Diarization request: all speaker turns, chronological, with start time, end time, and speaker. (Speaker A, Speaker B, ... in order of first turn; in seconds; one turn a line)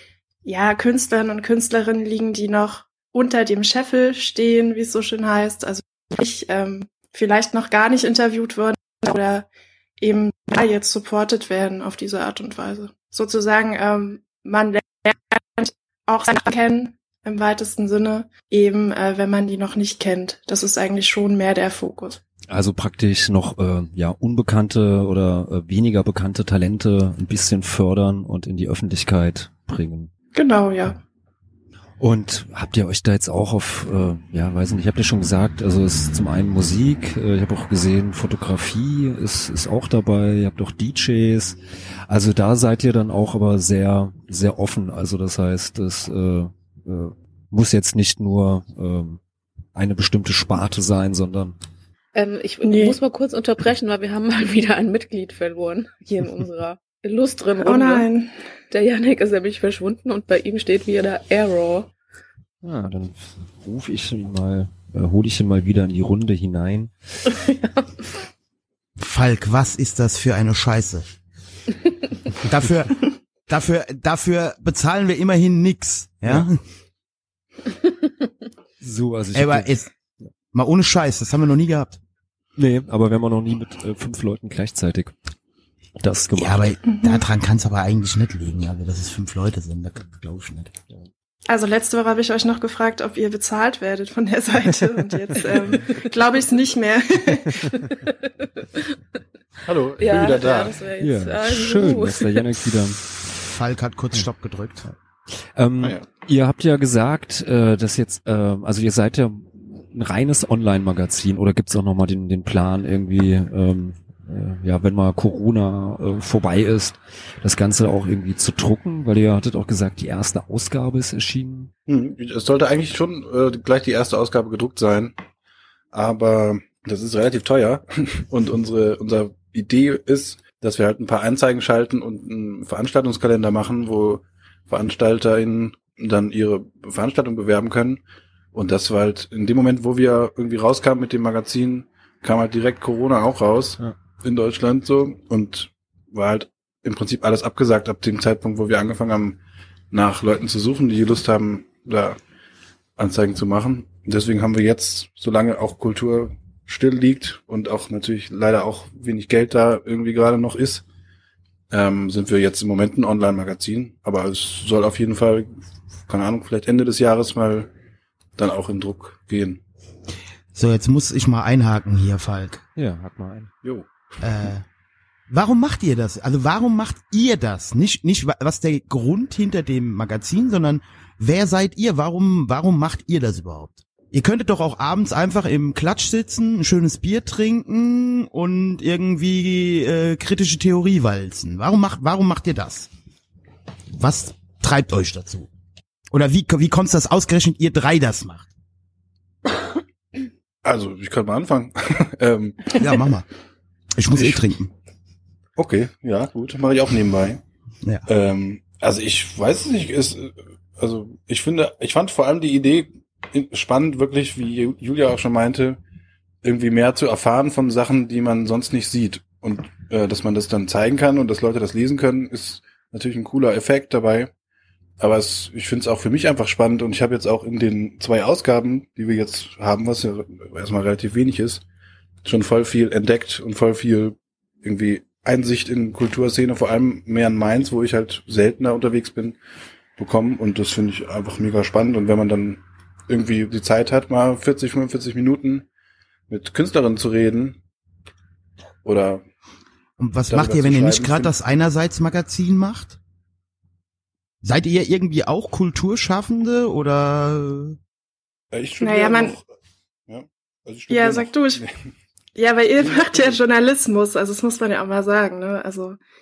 Speaker A: 0.4-9.5
Speaker A: 10.0-22.2
Speaker B: 22.5-30.1
Speaker A: 30.3-31.0
Speaker B: 32.0-41.6
Speaker B: 42.1-49.2
Speaker B: 49.8-51.5
Speaker C: 52.1-58.1
Speaker A: 52.6-53.0
Speaker A: 57.6-58.3
Speaker C: 58.7-61.9
Speaker B: 62.6-66.9
Speaker C: 67.3-68.1
Speaker D: 69.0-71.1
Speaker D: 72.4-76.6
Speaker B: 78.8-79.7
Speaker D: 79.3-79.9
Speaker D: 80.5-82.0
Speaker B: 82.6-85.1
Speaker B: 86.0-86.8
Speaker D: 86.4-90.8
Speaker A: 86.9-87.2
Speaker A: 91.5-97.8
Speaker E: 99.7-100.8
Speaker C: 100.0-102.5
Speaker B: 101.0-103.0
Speaker D: 103.3-104.8
Speaker B: 105.5-121.7
Speaker E: 121.9-125.2
Speaker E: 125.9-138.0
Speaker E: 138.5-149.4
Speaker E: 149.9-152.2
Speaker E: 153.0-160.8
Speaker E: 161.7-165.5
Speaker E: 166.1-167.7
Speaker E: 168.4-169.6
Speaker D: 170.5-172.6
Speaker B: 172.8-173.5
Speaker E: 173.6-173.9
Speaker D: 174.2-174.6
Speaker D: 175.3-192.9
Speaker D: 193.9-195.5
Speaker D: 196.1-198.5
Speaker E: 200.6-202.8
Speaker D: 202.8-203.3
Speaker D: 203.9-204.7
Speaker E: 204.1-204.4
Speaker E: 205.6-207.4
Speaker E: 208.1-215.8
Speaker E: 216.4-224.3
Speaker E: 225.0-231.6
Speaker E: 232.2-239.4
Speaker E: 240.0-245.7
Speaker E: 246.3-247.6
Speaker E: 248.8-249.2
Speaker D: 250.0-253.0
Speaker E: 250.3-251.3
Speaker D: 254.4-257.8
Speaker E: 258.5-259.5
Speaker A: 258.8-259.3
Speaker E: 260.1-261.8
Speaker A: 260.9-261.6
Speaker A: 262.4-266.0
Speaker E: 262.8-263.4